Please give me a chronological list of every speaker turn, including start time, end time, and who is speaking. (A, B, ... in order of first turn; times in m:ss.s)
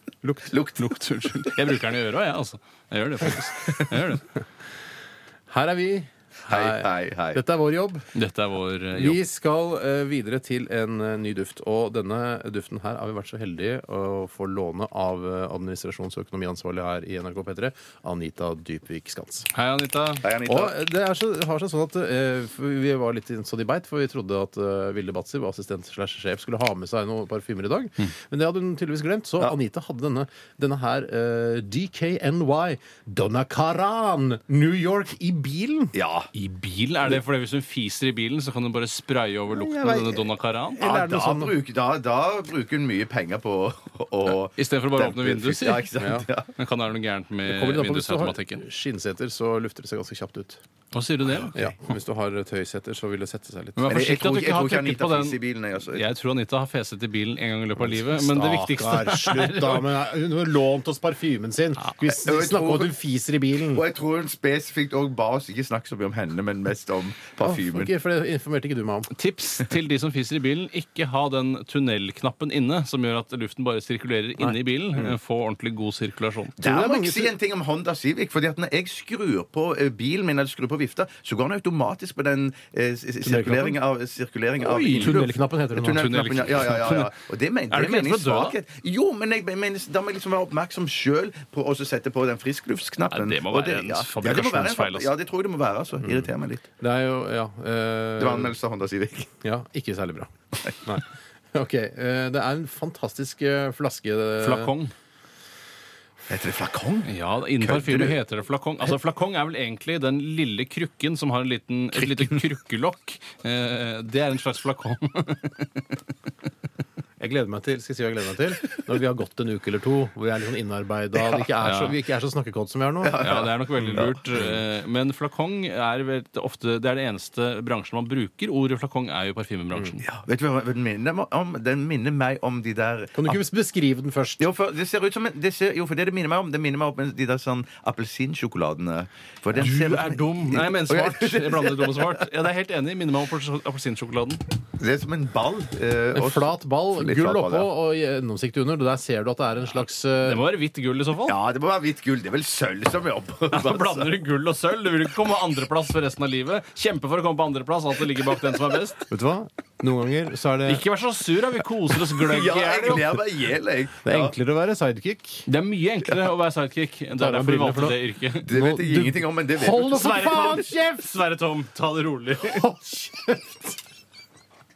0:00.2-0:00.6 A
0:00.5-0:01.7 B
0:00.7-0:04.2 C
0:05.5-0:08.0 A
0:06.4-0:07.4 B
0:08.1-0:09.2 C
0:08.9-0:19.5 A
0:19.5-0:20.3 C
0:20.2-0:20.8 B
0:20.4-0:35.9 A
0:35.9-0:36.3 B
0:36.3-0:40.9 C
0:39.5-0:41.6 A
0:40.8-0:46.5 B
0:44.2-0:45.9 C
0:45.9-0:46.3 A
0:46.6-0:48.6 C
0:47.4-0:50.6 A
0:50.9-0:51.7 C
0:51.3-0:51.5 B
0:51.5-0:53.9 A
0:53.8-0:59.9 C
0:53.9-0:56.0 B
0:57.8-1:03.8 A
1:02.1-1:03.0 B
1:03.7-1:07.9 B
1:07.4-1:09.1 A
1:09.1-1:16.6 C
1:16.6-1:17.4 A
1:16.6-1:36.7 B
1:23.2-1:23.8 A
1:24.6-1:26.1 A
1:25.0-1:25.3 C
1:25.8-1:27.2 C
1:27.7-1:28.6 C
1:33.1-1:35.1 C
1:36.0-1:38.6 A
1:38.2-1:39.3 B
1:39.4-1:40.3 A
1:40.6-1:40.9 B
1:40.8-1:44.8 A
1:44.4-1:44.9 C
1:46.3-1:48.2 B
1:47.0-1:55.8 C
1:57.2-2:04.6 A
2:01.6-2:02.0 C
2:03.0-2:04.2 B
2:03.2-2:10.0 C
2:10.0-2:13.4 B
2:13.1-2:14.5 A
2:14.4-2:22.2 B
2:19.6-2:24.4 C
2:19.6-2:20.2 A
2:24.8-2:27.7 B
2:26.1-2:30.4 A
2:30.2-2:31.4 C
2:31.2-2:34.2 B
2:33.5-2:39.0 C
2:39.1-2:40.8 A
2:40.6-2:43.1 C
2:42.2-2:44.4 B
2:42.9-2:43.2 A
2:44.0-2:45.4 A
2:45.4-2:48.6 C
2:47.2-2:51.2 A
2:48.4-2:49.9 B
2:49.7-2:52.6 C
2:52.4-2:53.8 A